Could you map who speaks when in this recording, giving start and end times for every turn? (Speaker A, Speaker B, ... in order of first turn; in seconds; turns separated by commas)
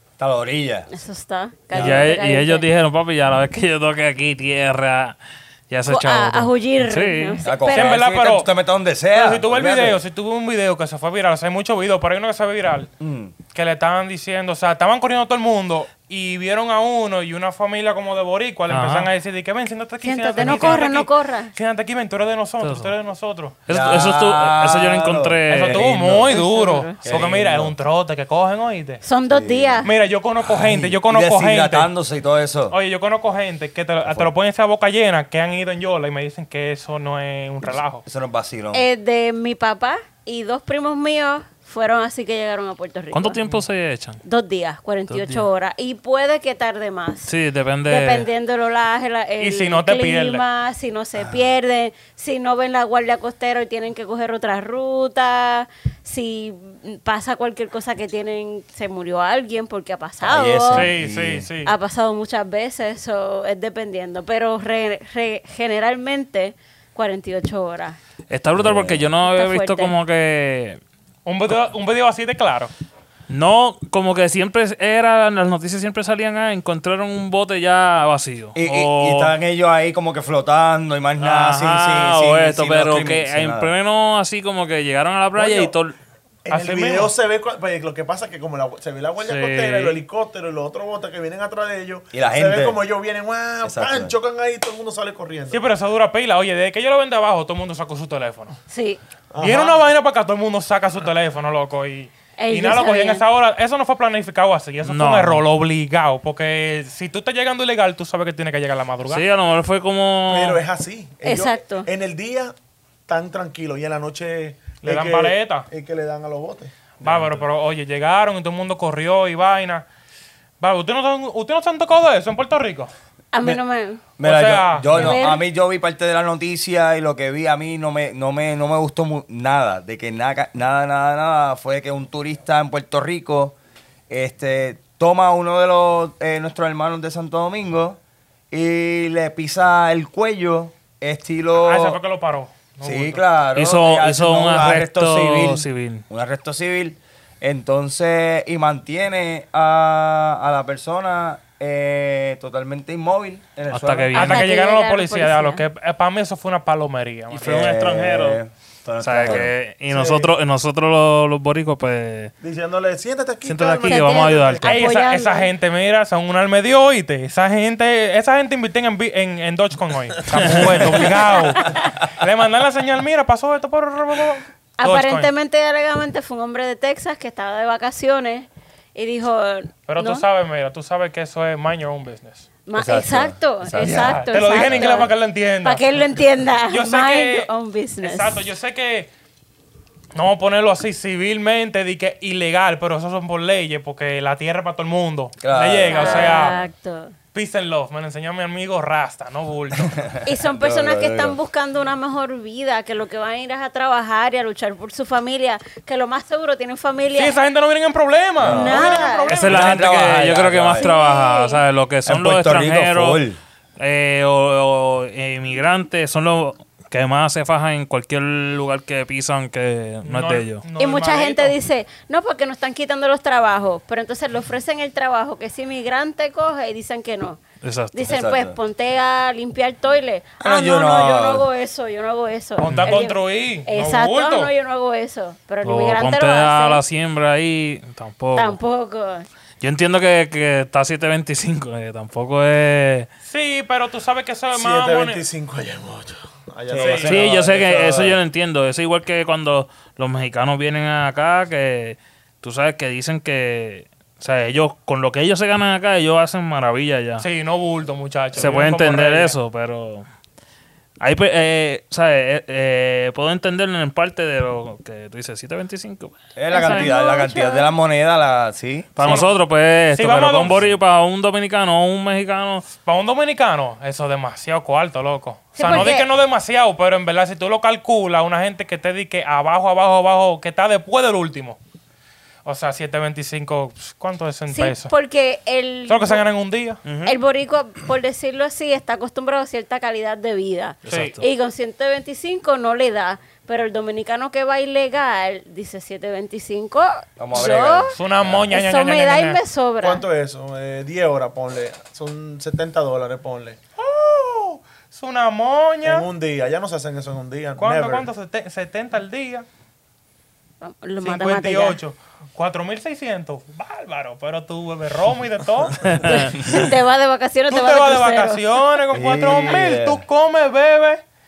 Speaker A: 0.2-0.9, Speaker B: 0.9-2.7, Speaker C: 1.7-5.2, Speaker A: 1.7-2.0, Speaker C: 5.7-7.4, Speaker B: 5.9-8.0, Speaker A: 7.4-10.0, Speaker D: 7.7-8.5, Speaker D: 9.1-12.9, Speaker A: 13.0-13.3, Speaker D: 13.5-23.6, Speaker C: 18.7-19.1, Speaker B: 20.0-21.5, Speaker C: 22.6-22.9, Speaker C: 23.7-26.2, Speaker A: 23.7-26.3, Speaker D: 25.5-29.0, Speaker B: 26.3-27.0, Speaker A: 27.0-27.7, Speaker B: 29.0-29.9, Speaker A: 29.3-29.9, Speaker D: 29.8-31.9, Speaker A: 30.4-32.8, Speaker D: 32.7-38.0, Speaker A: 34.0-34.3, Speaker A: 38.0-38.8, Speaker B: 38.7-43.4, Speaker C: 43.1-44.2, Speaker B: 44.2-47.3, Speaker C: 45.1-45.5, Speaker C: 47.2-48.3, Speaker B: 47.8-60.9, Speaker D: 49.4-50.4, Speaker A: 60.2-61.5, Speaker D: 60.7-61.7, Speaker B: 61.6-68.0, Speaker C: 68.3-70.8, Speaker A: 68.6-69.1, Speaker B: 69.2-70.0, Speaker D: 71.2-72.7, Speaker C: 73.3-79.3, Speaker A: 78.5-83.7, Speaker C: 81.2-86.0, Speaker E: 85.3-85.7, Speaker E: 86.4-95.6, Speaker D: 86.5-87.1, Speaker C: 89.2-90.0, Speaker A: 92.1-92.8, Speaker A: 93.6-94.1, Speaker D: 95.5-98.6, Speaker B: 98.7-99.0, Speaker E: 99.3-99.8, Speaker D: 99.4-109.2, Speaker B: 102.4-103.2, Speaker C: 104.8-105.4, Speaker C: 109.1-110.6, Speaker E: 110.3-112.5, Speaker B: 111.2-111.9, Speaker E: 113.1-116.7, Speaker D: 114.8-115.7, Speaker D: 117.0-119.8, Speaker C: 117.0-117.4, Speaker D: 120.6-122.9, Speaker B: 123.3-124.0, Speaker A: 124.2-133.6, Speaker D: 124.2-125.2, Speaker B: 124.9-125.4, Speaker A: 134.1-138.0, Speaker A: 138.5-142.0, Speaker D: 141.6-143.2, Speaker A: 142.8-154.2, Speaker C: 143.5-146.0, Speaker C: 153.7-154.5, Speaker B: 154.1-155.6, Speaker D: 154.1-157.6, Speaker C: 157.3-158.4, Speaker A: 157.4-159.5, Speaker C: 159.0-162.3, Speaker E: 159.9-160.3, Speaker E: 162.4-164.6, Speaker C: 163.4-164.7, Speaker B: 163.8-165.5, Speaker D: 164.6-175.3, Speaker C: 170.3-171.0, Speaker B: 171.3-171.9, Speaker B: 174.8-180.2, Speaker D: 179.9-182.5, Speaker B: 182.7-188.4, Speaker A: 182.8-185.1, Speaker D: 183.8-185.8, Speaker D: 186.7-187.5, Speaker D: 188.0-189.1, Speaker D: 190.1-196.6, Speaker A: 195.4-196.6, Speaker B: 195.9-197.1, Speaker D: 197.3-200.1, Speaker A: 200.0-201.4, Speaker B: 200.2-207.4, Speaker D: 207.1-209.9, Speaker A: 208.4-210.9, Speaker B: 208.4-209.3, Speaker C: 209.3-213.2, Speaker B: 210.7-211.6, Speaker A: 212.1-213.4, Speaker C: 213.8-220.6, Speaker D: 220.0-221.6, Speaker B: 220.8-227.4, Speaker C: 227.6-228.1, Speaker B: 227.9-236.8, Speaker A: 228.1-228.6, Speaker A: 230.4-231.5, Speaker D: 232.6-234.5, Speaker C: 232.6-233.0, Speaker C: 235.6-238.6, Speaker B: 238.3-239.2, Speaker C: 239.6-243.1, Speaker D: 243.2-245.2, Speaker E: 244.5-248.1, Speaker A: 246.7-248.1, Speaker D: 246.8-247.1, Speaker C: 247.0-257.2, Speaker D: 257.2-259.4, Speaker C: 258.3-260.0, Speaker C: 261.0-266.9, Speaker A: 266.4-269.2, Speaker B: 266.5-267.7, Speaker C: 268.9-272.7, Speaker D: 269.0-269.3, Speaker D: 269.9-270.7, Speaker D: 272.8-281.6, Speaker B: 275.6-276.1, Speaker D: 282.4-284.9, Speaker B: 284.5-286.2, Speaker D: 285.9-286.8, Speaker C: 286.8-287.2, Speaker B: 287.0-297.9, Speaker C: 290.8-291.3, Speaker D: 290.9-291.1, Speaker A: 297.2-298.4, Speaker D: 297.9-299.4, Speaker B: 298.5-300.0, Speaker E: 299.8-303.6, Speaker D: 303.8-306.1, Speaker E: 305.8-308.1, Speaker D: 307.6-309.4, Speaker B: 310.6-311.8, Speaker D: 311.0-316.2, Speaker C: 315.8-316.3, Speaker B: 316.0-318.4, Speaker D: 317.5-321.0, Speaker A: 318.9-320.0